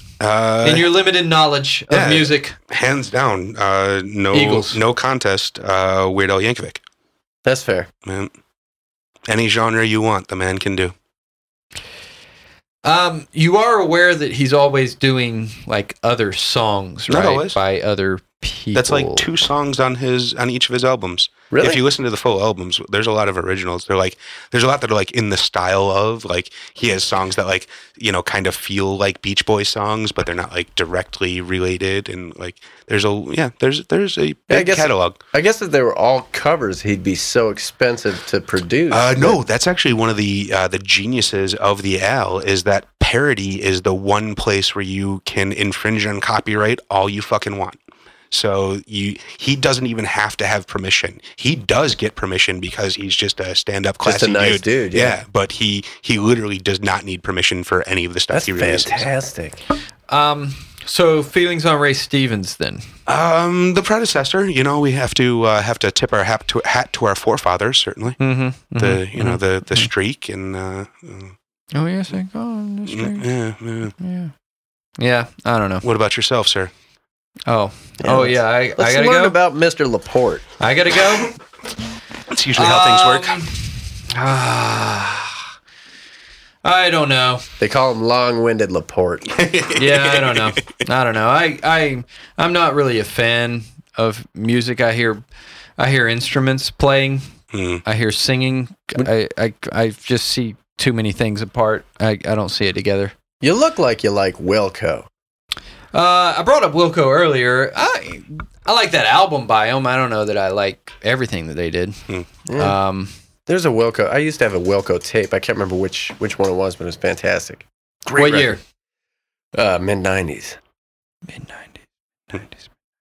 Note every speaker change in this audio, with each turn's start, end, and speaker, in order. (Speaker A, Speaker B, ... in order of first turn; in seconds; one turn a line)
Speaker A: 0.2-0.9
Speaker B: 0.6-2.6
Speaker A: 1.9-6.8
Speaker B: 4.3-4.8
Speaker C: 7.4-7.9
Speaker A: 8.0-8.3
Speaker A: 9.3-10.9
Speaker B: 12.8-19.3
Speaker A: 17.1-17.6
Speaker A: 18.7-35.2
Speaker C: 21.5-21.8
Speaker C: 34.5-39.4
Speaker A: 38.9-47.8
Speaker A: 48.3-59.1
Speaker C: 54.0-55.2
Speaker C: 58.3-59.6
Speaker B: 60.1-62.9
Speaker A: 63.1-68.2
Speaker B: 68.2-69.9
Speaker A: 68.8-71.3
Speaker B: 71.7-73.3
Speaker A: 72.9-73.9
Speaker B: 74.0-74.3
Speaker B: 75.0-75.8
Speaker A: 75.8-76.7
Speaker B: 77.5-79.3
Speaker C: 78.0-80.4
Speaker B: 80.6-81.3
Speaker A: 82.3-83.4
Speaker B: 82.5-85.4
Speaker B: 86.6-87.5
Speaker C: 87.6-89.3
Speaker A: 89.3-90.5
Speaker B: 89.7-95.2
Speaker B: 95.8-97.3
Speaker A: 97.5-97.8
Speaker B: 97.8-103.1
Speaker C: 103.4-105.1
Speaker B: 105.9-112.0
Speaker C: 112.5-112.8
Speaker B: 112.5-113.1
Speaker C: 113.5-117.7
Speaker A: 118.1-118.4
Speaker B: 118.2-118.6
Speaker C: 118.2-118.5
Speaker C: 119.5-120.6
Speaker B: 121.3-121.8
Speaker B: 122.3-122.6